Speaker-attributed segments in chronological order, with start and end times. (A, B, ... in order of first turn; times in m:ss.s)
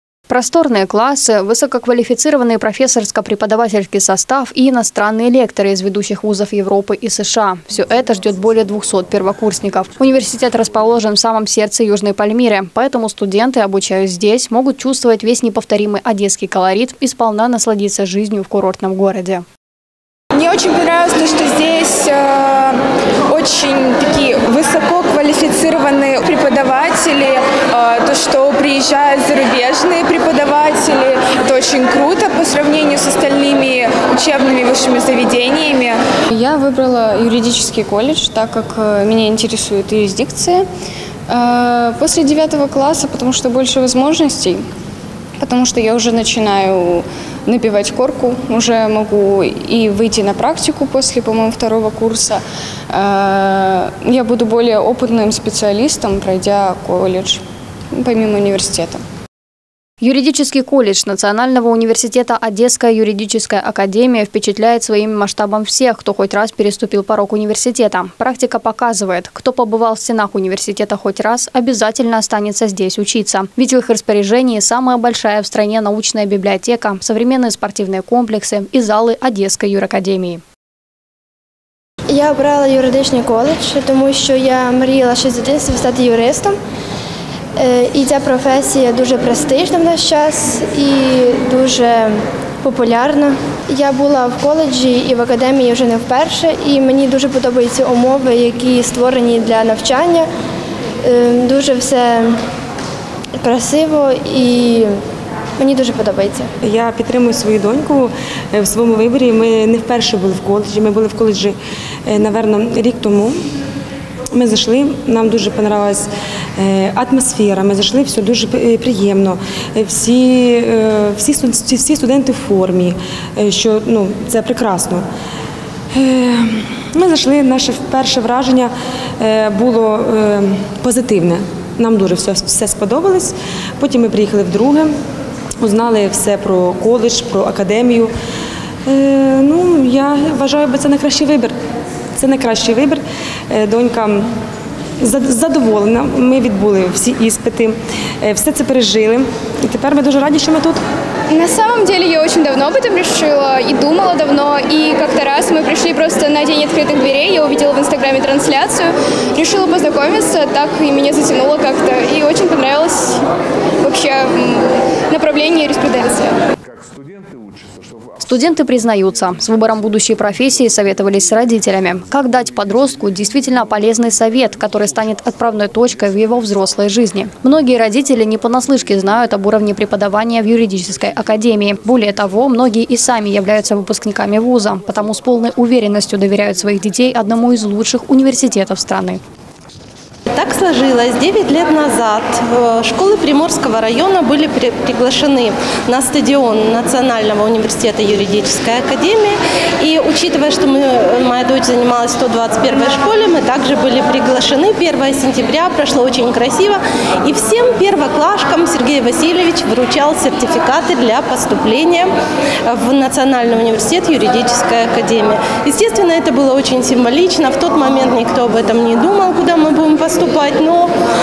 0:00.3-0:19.4 A
0:20.4-0:22.8 B
0:23.3-0:36.0 B
0:32.1-0:32.7 C
0:36.3-0:40.7 C
0:41.3-0:44.6 C
0:45.4-0:57.4 C
0:57.9-0:59.0 C
1:00.0-1:20.4 A
1:22.1-1:26.6 D
1:27.6-1:40.3 D
1:41.0-1:42.4 D
1:43.4-1:45.0 D
1:45.6-1:46.5 D
1:46.6-1:53.4 E
1:54.4-2:05.1 E
2:05.9-2:14.9 E
2:15.6-2:18.1 E
2:18.9-2:21.6 E
2:22.2-2:24.3 E
2:25.0-2:30.8 E
2:31.3-2:43.2 F
2:43.8-2:46.4 F
2:48.2-3:09.2 A
3:10.3-3:32.1 G
3:32.7-3:40.9 G